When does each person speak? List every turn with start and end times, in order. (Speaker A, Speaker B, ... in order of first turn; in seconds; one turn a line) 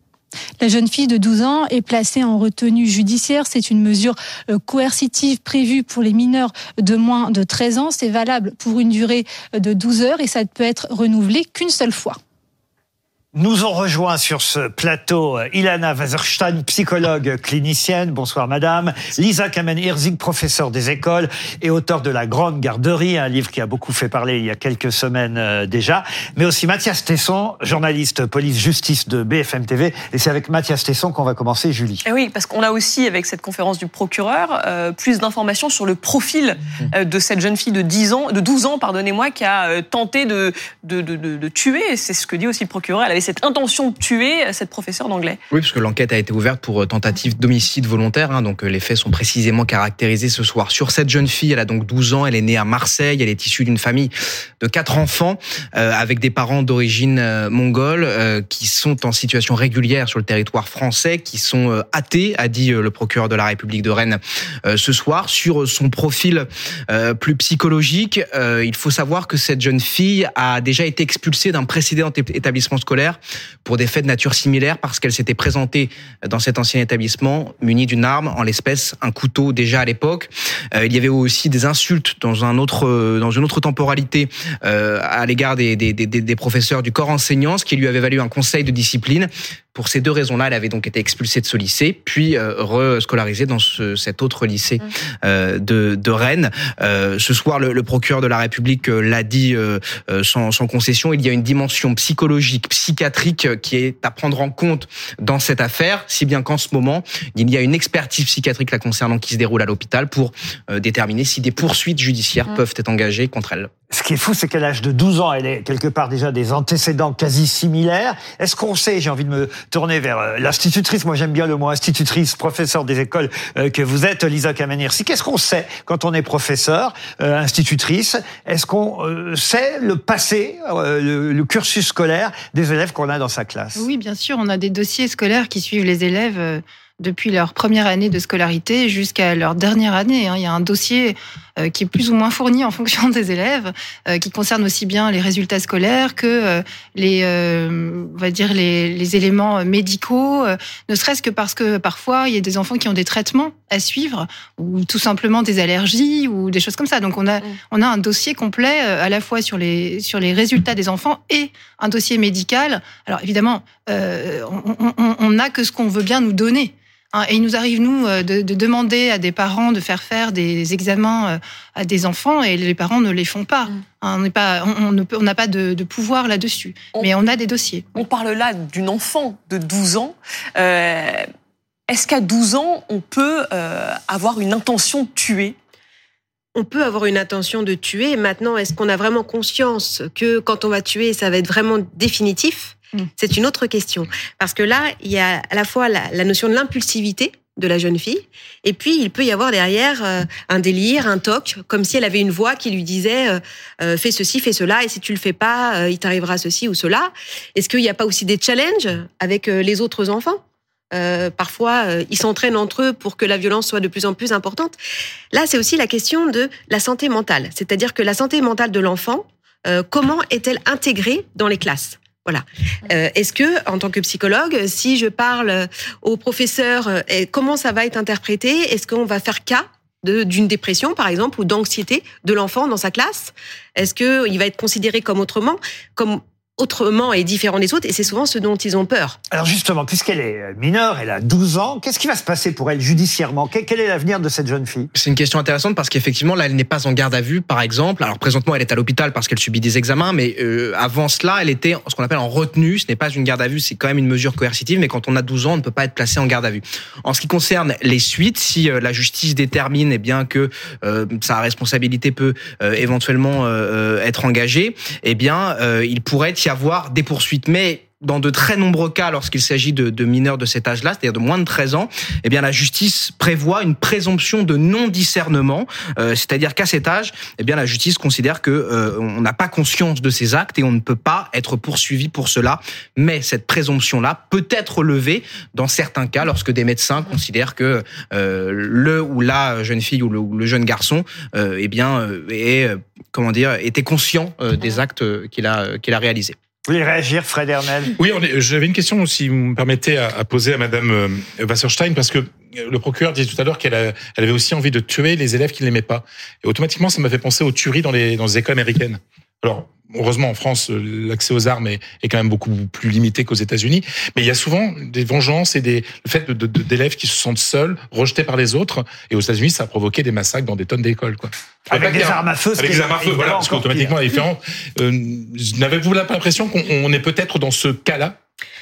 Speaker A: 0.6-12.2
Speaker B: 13.3-32.0
Speaker C: 32.0-45.4
Speaker D: 45.5-113.7
Speaker B: 113.9-133.9
Speaker E: 133.7-177.9
Speaker C: 177.9-181.2
Speaker C: 181.9-185.6
Speaker F: 186.6-210.4
Speaker F: 210.9-214.8
Speaker F: 215.3-239.2
Speaker B: 239.3-244.9
Speaker D: 244.9-296.4
Speaker B: 296.7-297.9
Speaker G: 298.0-328.2
Speaker B: 321.7-324.0